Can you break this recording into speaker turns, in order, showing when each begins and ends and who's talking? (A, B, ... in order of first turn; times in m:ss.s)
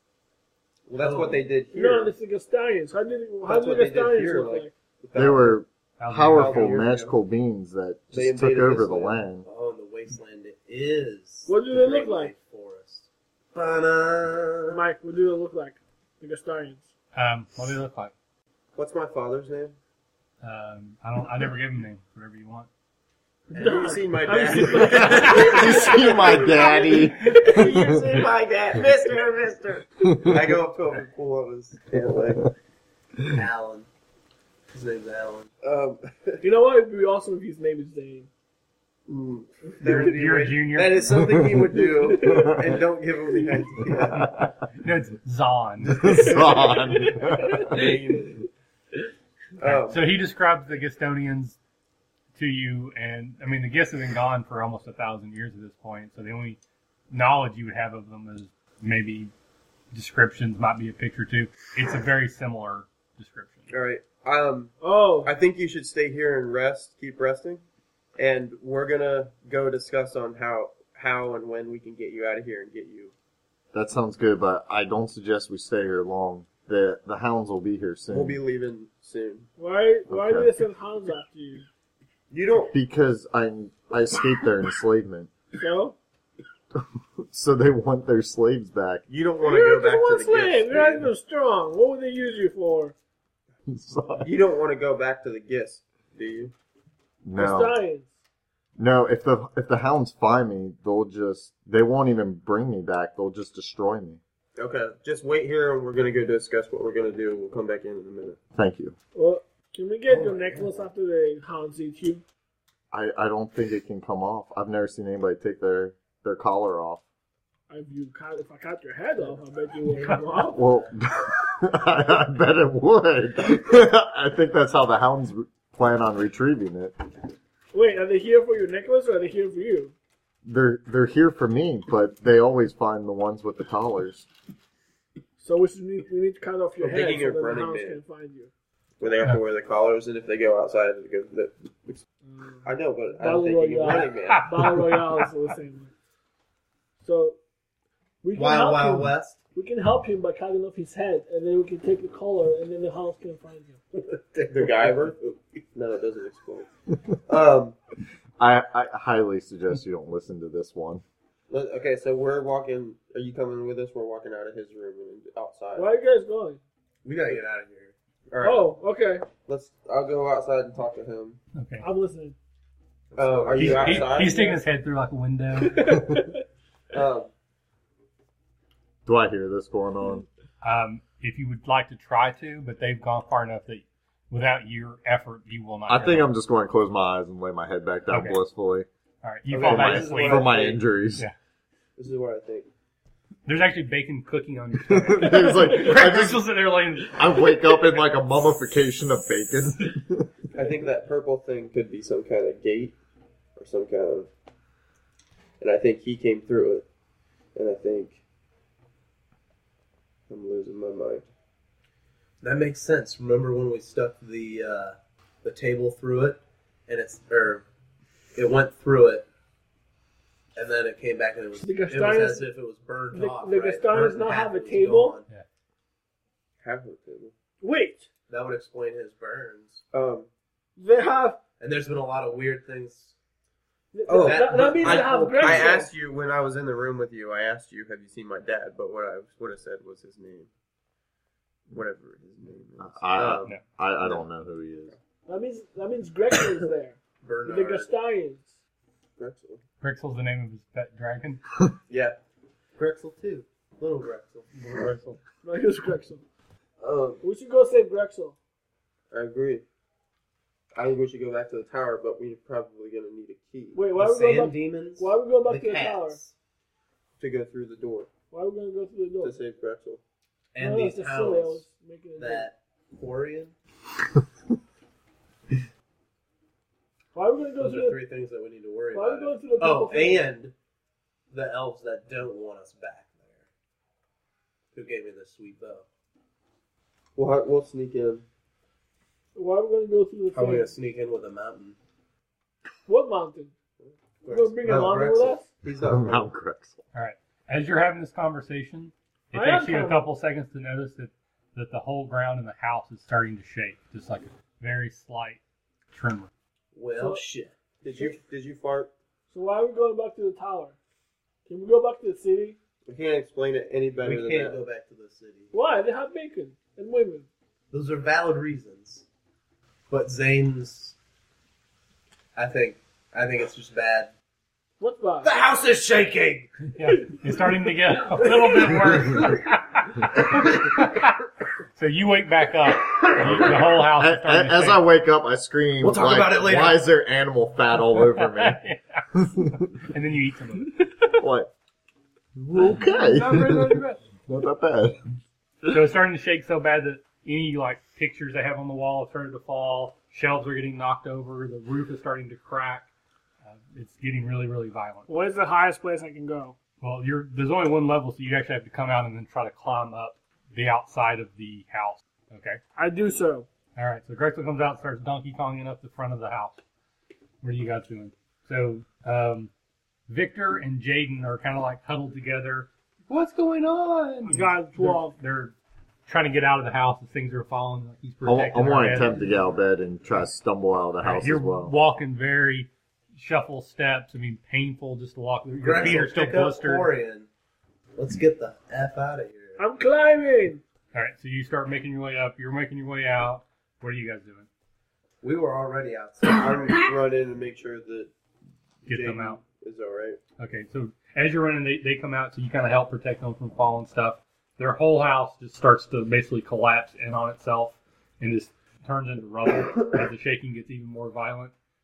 0:00.9-0:02.1 A
0:01.0-0:01.5 B
0:01.7-0:04.7 C
0:03.4-0:05.6 A
0:05.2-0:09.5 D
0:06.0-0:06.9 E
0:06.3-0:07.2 A
0:08.1-0:09.2 A
0:09.4-0:14.8 B
0:11.5-0:12.3 C
0:14.7-0:16.9 C
0:17.2-0:18.1 E
0:18.8-0:19.8 A
0:20.4-0:22.7 E
0:23.5-0:26.9 C
0:23.5-0:26.6 B
0:23.6-0:26.7 A
0:25.0-0:28.3 D
0:27.3-0:29.8 B
0:30.1-0:30.5 D
0:30.2-0:32.5 A
0:33.3-0:33.9 B
0:34.7-0:35.5 B
0:35.6-0:36.5 A
0:36.4-0:38.3 C
0:39.1-0:44.4 A
0:39.8-0:41.1 E
0:41.1-0:42.5 D
0:41.2-0:41.9 B
0:42.0-0:42.6 C
0:44.0-0:44.3 D
0:44.2-0:46.2 E
0:45.8-0:48.0 D
0:46.2-0:47.9 C
0:47.5-0:48.4 A
0:49.6-0:50.1 A
0:49.6-0:51.6 E
0:52.4-0:56.6 E
0:57.1-0:59.3 E
0:59.9-1:03.7 E
1:03.7-1:07.6 A
1:04.8-1:05.3 C
1:08.2-1:13.1 A
1:13.7-1:18.4 D
1:18.1-1:19.5 A
1:19.6-1:21.7 C
1:20.1-1:20.6 D
1:22.3-1:22.8 A
1:22.7-1:25.3 D
1:25.6-1:26.0 C
1:26.8-1:29.0 D
1:29.1-1:31.1 A
1:29.4-1:32.9 C
1:33.7-1:34.3 D
1:34.2-1:36.5 A
1:37.2-1:37.8 D
1:37.4-1:38.1 C
1:38.8-1:44.2 D
1:44.6-1:48.4 A
1:48.6-1:49.0 D
1:49.2-1:52.2 C
1:50.1-1:50.7 B
1:52.9-1:57.0 D
1:57.7-2:00.6 C
1:59.9-2:00.2 B
2:00.5-2:07.0 D
2:07.7-2:09.9 C
2:10.4-2:14.3 D
2:15.4-2:18.5 C
2:16.8-2:18.0 A
2:19.0-2:22.0 A
2:22.2-2:25.9 C
2:22.6-2:24.8 A
2:24.2-2:25.3 E
2:27.0-2:27.4 C
2:28.2-2:33.8 C
2:28.4-2:29.4 B
2:34.3-2:35.0 B
2:34.5-2:35.2 A
2:35.7-2:36.7 A
2:37.3-2:37.8 A
2:38.4-2:41.0 D
2:41.5-2:45.9 A
2:45.8-2:46.6 C
2:47.0-2:47.9 B
2:47.1-2:47.5 A
2:48.3-2:48.7 A
2:48.4-2:49.3 C
2:49.4-2:51.4 A
2:51.6-2:51.9 E
2:51.8-2:52.4 C
2:53.2-2:54.1 B
2:53.2-2:54.6 A
2:53.6-2:56.0 E
2:55.6-2:56.4 C
2:56.9-2:57.3 A
2:59.0-3:00.3 D
3:00.6-3:06.3 E
3:05.9-3:08.9 D
3:08.1-3:08.4 E
3:09.2-3:10.5 E
3:09.5-3:10.8 A
3:09.6-3:11.3 D
3:12.0-3:12.7 A
3:13.5-3:17.8 E
3:14.9-3:16.5 D
3:17.1-3:20.4 D
3:20.5-3:23.0 A
3:23.6-3:24.3 A
3:25.6-3:26.8 A
3:27.6-3:28.2 A
3:30.3-3:31.3 A
3:32.4-3:37.6 B
3:38.4-3:39.3 B
3:40.6-3:45.3 B
3:41.6-3:42.5 C
3:43.1-3:45.2 C
3:46.6-3:47.3 A
3:47.6-3:48.1 C
3:48.3-3:49.8 B
3:49.9-3:50.3 A
3:50.8-3:51.4 C
3:51.6-3:53.2 B
3:53.9-3:55.9 C
3:54.1-4:00.5 A
3:54.2-3:55.8 B
4:01.7-4:03.5 A
4:02.8-4:05.0 D
4:05.3-4:08.6 C
4:07.3-4:07.9 B
4:09.2-4:09.6 A
4:09.8-4:11.4 E
4:11.9-4:12.2 A
4:12.8-4:14.8 B
4:14.7-4:15.1 A
4:15.4-4:16.2 C
4:16.8-4:17.2 A
4:17.2-4:18.4 C
4:19.1-4:19.6 A
4:20.8-4:23.8 A
4:23.8-4:26.2 C
4:24.0-4:26.3 B
4:27.2-4:28.1 A
4:28.3-4:29.4 C
4:29.2-4:30.0 A
4:30.5-4:31.6 B
4:30.6-4:32.5 C
4:32.2-4:33.5 B
4:37.1-4:38.0 C
4:37.6-4:40.5 B
4:38.9-4:40.3 C
4:41.3-4:43.4 B
4:44.7-4:45.8 B
4:47.2-4:48.2 A
4:49.4-4:50.7 C
4:50.3-4:51.8 B
4:52.9-4:53.5 C
4:54.2-4:56.0 B
4:54.3-4:55.5 C
4:54.7-4:55.0 A
4:55.6-4:56.3 A
4:55.8-4:56.8 D
4:56.9-5:05.4 E
4:59.3-5:00.0 C
5:05.9-5:06.3 E
5:06.8-5:07.5 B
5:07.0-5:07.2 C
5:07.8-5:08.9 A
5:09.3-5:10.8 C
5:11.5-5:12.6 C
5:12.9-5:14.6 A
5:14.0-5:15.5 B
5:15.5-5:17.3 C
5:17.7-5:19.1 B
5:19.9-5:21.0 B
5:22.4-5:24.1 B
5:24.8-5:25.3 C
5:25.2-5:26.5 B
5:26.6-5:31.2 E
5:31.8-5:34.8 E
5:33.2-5:38.6 D
5:35.8-5:36.8 B
5:38.0-5:40.8 E
5:39.1-5:39.6 D
5:41.1-5:41.5 D
5:42.4-5:45.0 D
5:42.9-5:44.0 E
5:45.6-5:52.9 E
5:53.5-5:55.1 E
5:55.1-5:56.6 C
5:56.8-6:02.6 E
6:02.8-6:03.5 C
6:03.8-6:06.6 E
6:07.4-6:09.5 E
6:10.1-6:15.6 E
6:14.3-6:15.2 C
6:16.1-6:19.2 E
6:18.2-6:21.7 D
6:21.0-6:26.9 E
6:25.6-6:27.3 B
6:28.0-6:29.6 B
6:29.6-6:30.6 C
6:30.9-6:34.5 E
6:35.2-6:36.8 B
6:36.2-6:38.1 A
6:38.9-6:39.4 E
6:38.9-6:40.2 A
6:40.4-6:51.5 E